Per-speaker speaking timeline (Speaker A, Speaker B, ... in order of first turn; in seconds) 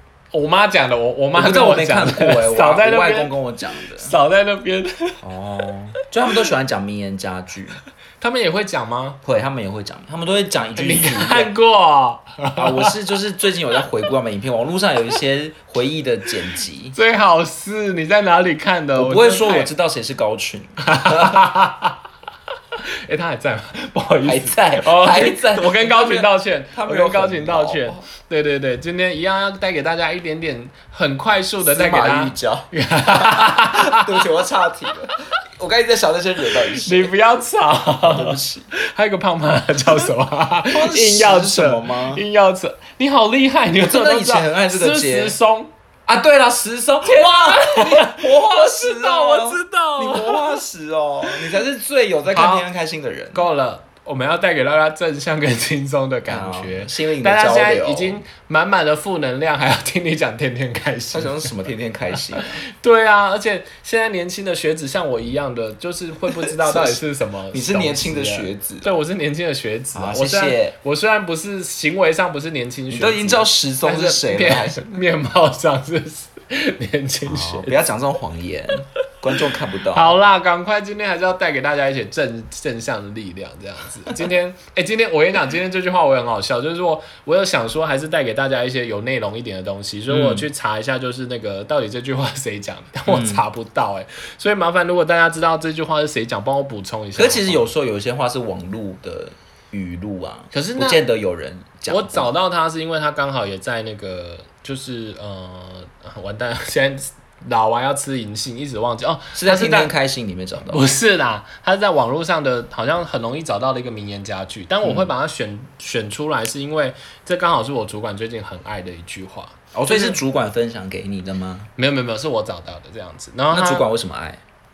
Speaker A: 0.3-3.3, 3.9-5.2, 8.2-9.2, 10.8-12.9, 16.9-19.7, 20.8-22.0, 23.1-34.2, 36.7-45.7, 47.1-50.6, 51.3-51.5, 52.3-52.7, 53.3-61.5, 62.4-77.8, 79.9-97.7, 100.5-101.0, 101.9-109.9, 110.7-120.2, 121.8-123.9
Speaker B: 1.3-4.2, 5.2-7.8, 9.2-11.5, 12.6-17.0, 18.9-21.4, 24.2-28.1, 31.6-37.1, 38.0-38.7, 40.7-42.2, 43.8-45.4, 46.1-53.5, 56.3-58.2, 61.1-62.6, 66.4-67.0, 67.5-69.0, 69.9-70.8, 72.9-75.0, 77.2-80.2, 90.1-90.5, 93.1-93.5, 97.2-102.3, 109.3-110.9, 114.8-115.1, 119.7-121.7, 123.5-124.4